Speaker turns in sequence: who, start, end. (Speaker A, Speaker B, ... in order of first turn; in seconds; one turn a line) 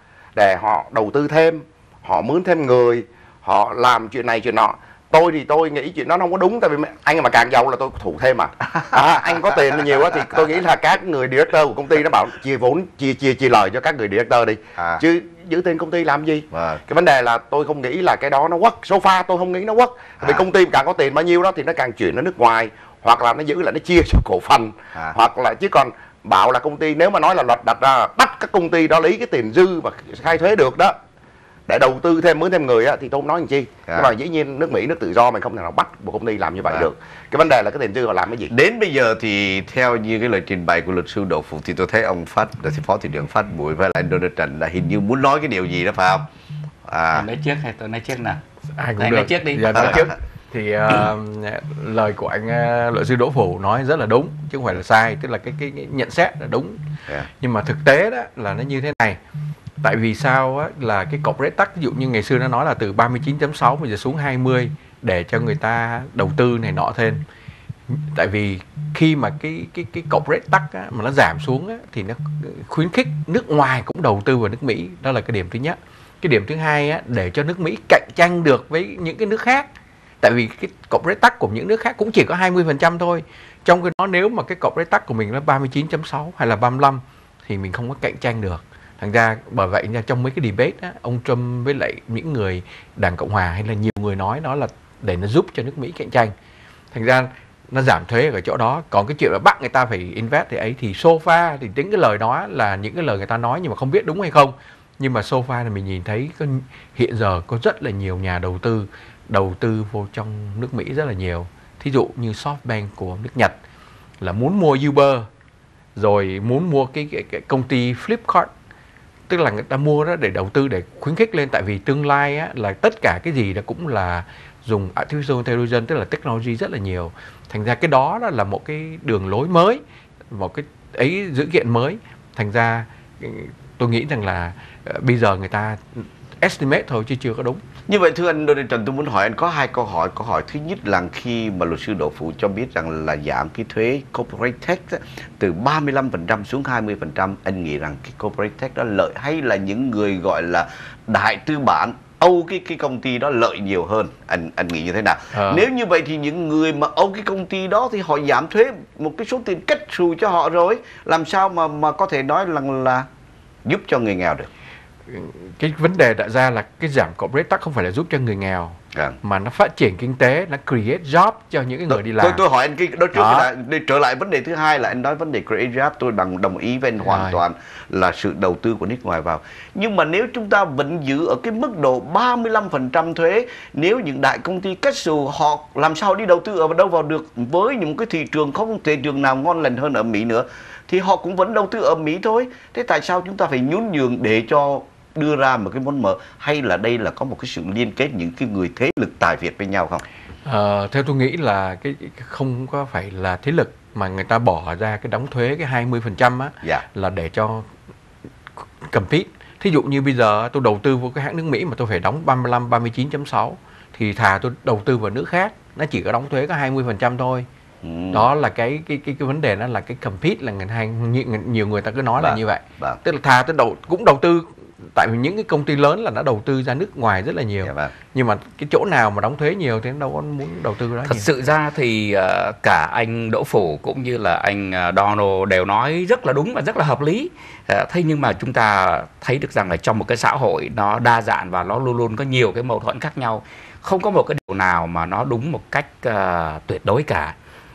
Speaker A: 0.3-30.9
Speaker B: 16.5-16.8
Speaker B: 20.2-20.4
Speaker A: 31.7-38.5
Speaker B: 38.5-46.3
Speaker B: 46.9-47.3
Speaker C: 47.1-48.4
Speaker D: 48.8-56.8
Speaker C: 49.0-50.1
Speaker D: 57.4-59.2
Speaker D: 59.8-67.2
Speaker D: 67.9-79.7
Speaker D: 80.2-96.3
Speaker D: 96.9-113.5
Speaker D: 114.2-115.2
Speaker D: 116.0-118.5
Speaker D: 119.3-137.6
Speaker B: 137.9-163.1
Speaker D: 155.3-155.7
Speaker B: 163.6-164.5
Speaker D: 165.1-172.4
Speaker B: 171.9-200.0
Speaker D: 173.1-173.5
Speaker D: 177.0-177.4
Speaker D: 200.4-207.7
Speaker D: 208.8-217.4
Speaker B: 217.8-218.3
Speaker D: 218.1-231.3
Speaker B: 222.2-223.0
Speaker B: 227.6-227.9
Speaker C: 231.0-247.3